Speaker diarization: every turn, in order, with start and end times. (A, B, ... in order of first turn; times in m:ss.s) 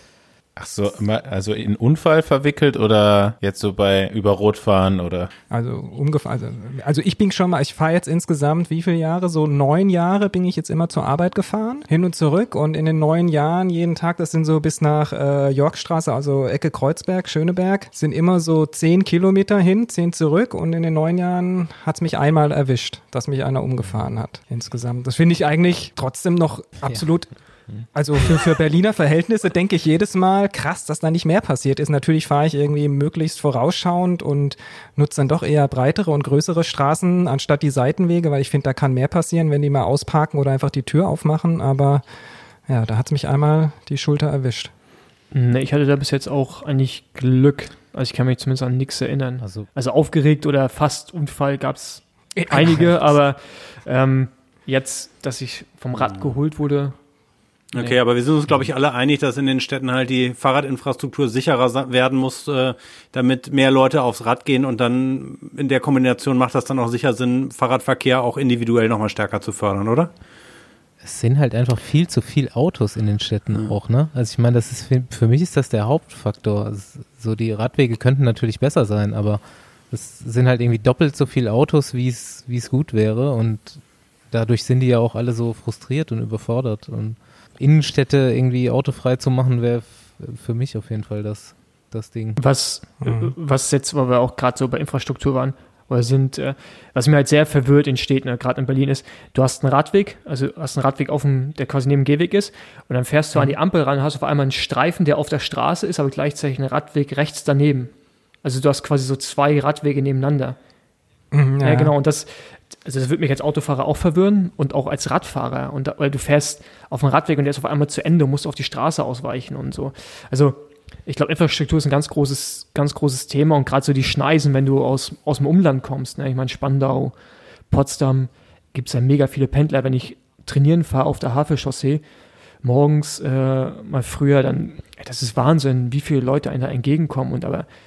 0:00.6-0:05.3 A
0:05.5-0:42.0 B
0:42.7-0:44.7 B
0:45.3-0:57.0 C
0:49.4-0:49.7 D
0:52.4-0:53.1 B
0:56.0-0:56.3 E
0:57.7-1:10.1 E
1:11.0-1:32.4 D
1:32.4-1:50.6 C
1:33.0-1:33.3 B
1:51.3-1:51.9 B
1:51.6-2:07.2 C
2:07.7-2:12.0 C
2:12.6-2:17.7 C